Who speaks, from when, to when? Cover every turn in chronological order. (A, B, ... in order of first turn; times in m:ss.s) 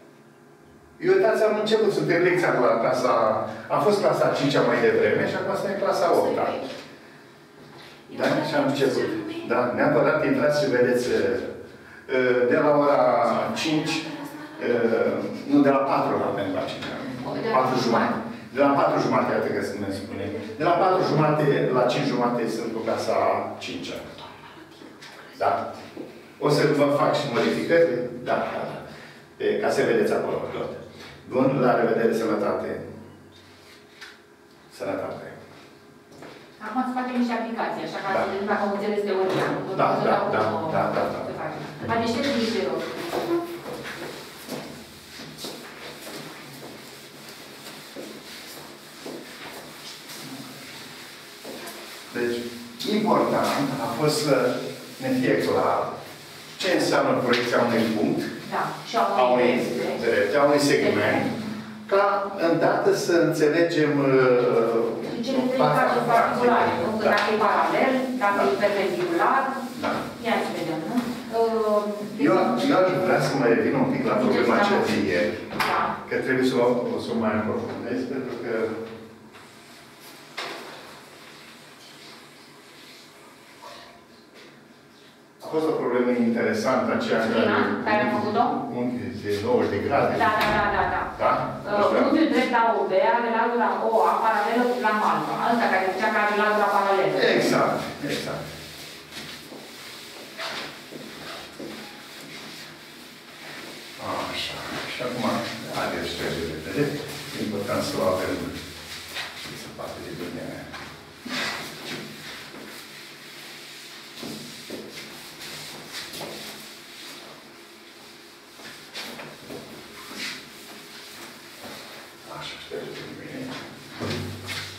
0:01.0-0:06.6 A
0:08.1-0:11.5 A
0:12.1-0:24.1 A
0:17.2-0:18.2 B
0:25.3-0:25.7 A
0:26.4-0:28.8 A
0:29.4-0:32.9 A
0:34.7-0:35.4 A
0:36.6-0:42.9 B
0:39.7-0:41.3 A
0:52.1-0:56.0 A
0:56.6-0:58.3 A
0:58.4-1:00.0 B
0:59.1-1:01.3 A
1:00.8-1:01.3 B
1:01.9-1:07.2 A
1:05.1-1:12.9 B
1:09.7-1:10.0 A
1:12.2-1:15.4 A
1:14.1-1:16.0 B
1:16.0-1:18.8 A
1:25.4-1:30.5 A
1:27.2-1:28.6 B
1:30.1-1:37.6 B
1:31.1-1:32.1 A
1:37.1-1:38.5 A
1:44.0-1:48.5 A
1:49.4-1:50.7 A
2:02.2-2:04.2 A